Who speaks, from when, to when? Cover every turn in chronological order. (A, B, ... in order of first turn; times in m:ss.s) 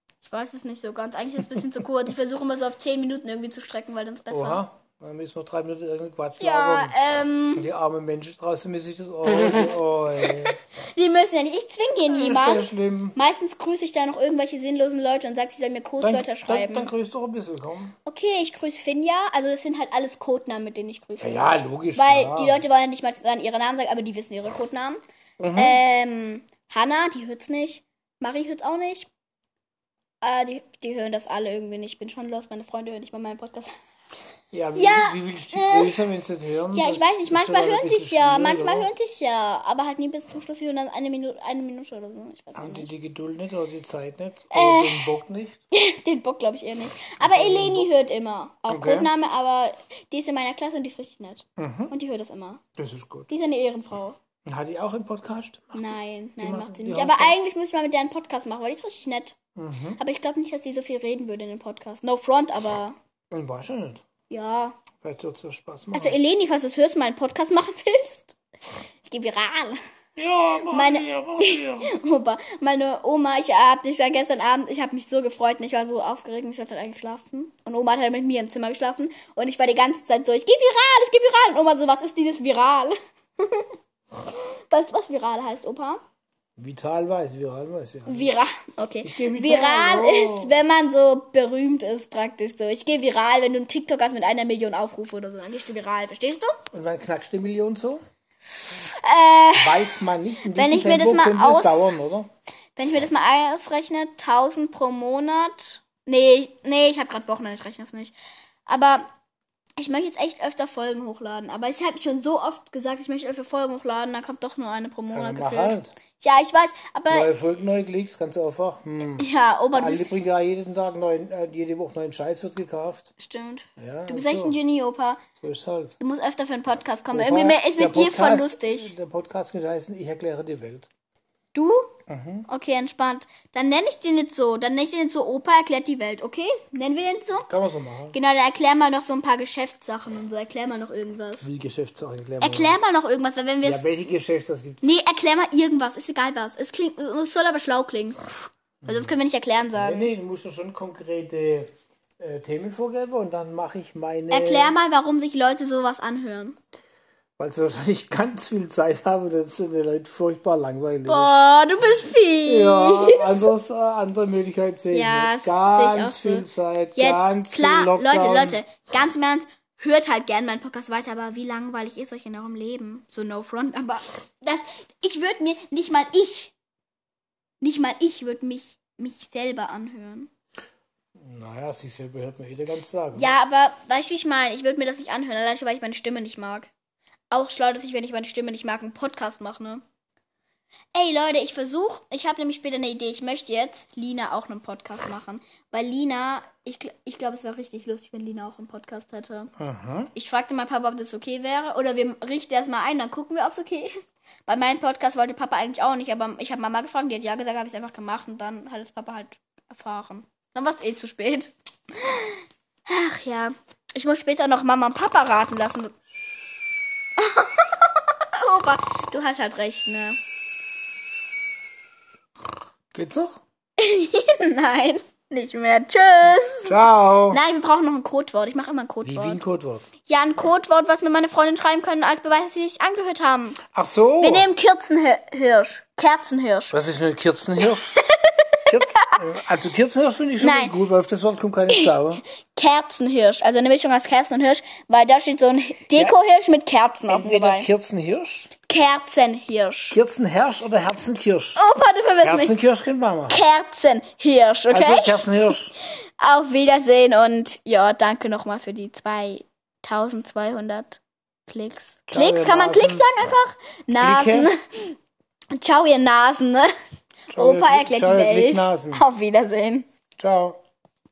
0:00.2-0:04.6 A
0:04.3-0:07.0 B
0:06.4-0:07.7 A
0:07.5-0:10.6 B
0:10.8-0:16.9 A
0:12.1-0:13.2 B
0:16.0-0:17.9 B
0:18.0-0:25.0 A
0:21.2-0:22.6 B
0:25.4-0:25.8 B
0:25.5-0:29.1 A
0:30.2-0:33.7 A
0:34.5-0:38.9 B
0:34.7-0:36.0 A
0:36.7-0:42.9 A
0:42.5-0:45.6 B
0:44.5-0:45.1 A
0:45.7-0:52.6 A
0:47.2-0:47.9 B
0:48.7-0:49.1 B
0:51.6-0:51.9 B
0:52.8-0:53.3 B
0:53.3-0:54.2 A
0:54.4-0:57.4 B
0:55.7-0:59.4 A
0:59.6-1:00.0 B
1:00.0-1:03.0 A
1:03.3-1:04.0 B
1:04.3-1:04.8 A
1:05.0-1:06.2 B
1:05.9-1:08.4 A
1:09.0-1:09.8 A
1:10.2-1:11.9 B
1:10.6-1:26.0 A
1:26.6-1:28.3 B
1:28.0-1:36.6 A
1:29.0-1:30.6 B
1:36.7-1:38.0 B
1:38.8-1:40.0 A
1:39.5-1:42.3 B
1:40.5-1:41.9 A
1:42.8-1:48.1 A
1:48.6-1:49.1 A
1:49.8-1:57.3 A
1:55.1-1:55.9 B
1:57.1-2:03.1 B
1:59.2-2:00.0 A
2:03.2-2:05.2 A
2:03.8-2:04.6 B
2:05.4-2:06.0 B
2:06.0-2:08.9 A
2:07.1-2:10.9 B
2:11.5-2:11.9 A
2:12.1-2:12.5 B
2:12.5-2:17.5 A
2:17.4-2:18.2 B
2:18.1-2:21.4 A
2:21.4-2:22.8 B
2:22.4-2:23.8 A
2:23.6-2:24.8 B
2:24.8-2:30.1 A
2:28.8-2:29.1 B
2:29.7-2:34.7 B
2:34.3-2:36.6 A
2:37.4-2:41.4 B
2:41.1-2:43.5 A
2:42.4-2:48.6 B
2:44.9-2:56.5 A
2:57.6-3:00.3 A
3:01.2-3:03.3 B
3:03.1-3:06.7 A
3:07.3-3:09.8 A
3:10.9-3:19.5 A
3:19.6-3:20.1 B
3:20.1-3:35.9 A
3:37.2-3:40.2 A
3:42.9-3:43.4 B
3:43.8-3:46.8 A
3:46.6-3:47.4 B
3:47.3-3:49.4 A
3:49.0-3:49.8 B
3:50.0-3:53.6 A
3:53.7-3:54.5 B
3:54.2-3:56.7 A
3:56.7-3:58.0 B
3:58.0-3:59.2 A
3:58.7-4:02.2 B
4:00.4-4:00.7 A
4:02.5-4:07.7 A
4:07.1-4:08.5 B
4:08.7-4:10.0 A
4:09.9-4:11.6 B
4:11.6-4:12.6 A
4:12.2-4:13.4 B
4:13.3-4:15.6 A
4:14.7-4:15.7 B
4:16.2-4:25.0 A
4:22.1-4:23.0 B
4:24.0-4:24.5 B
4:25.5-4:26.7 A
4:27.3-4:29.0 B
4:27.3-4:29.9 A
4:30.2-4:30.6 B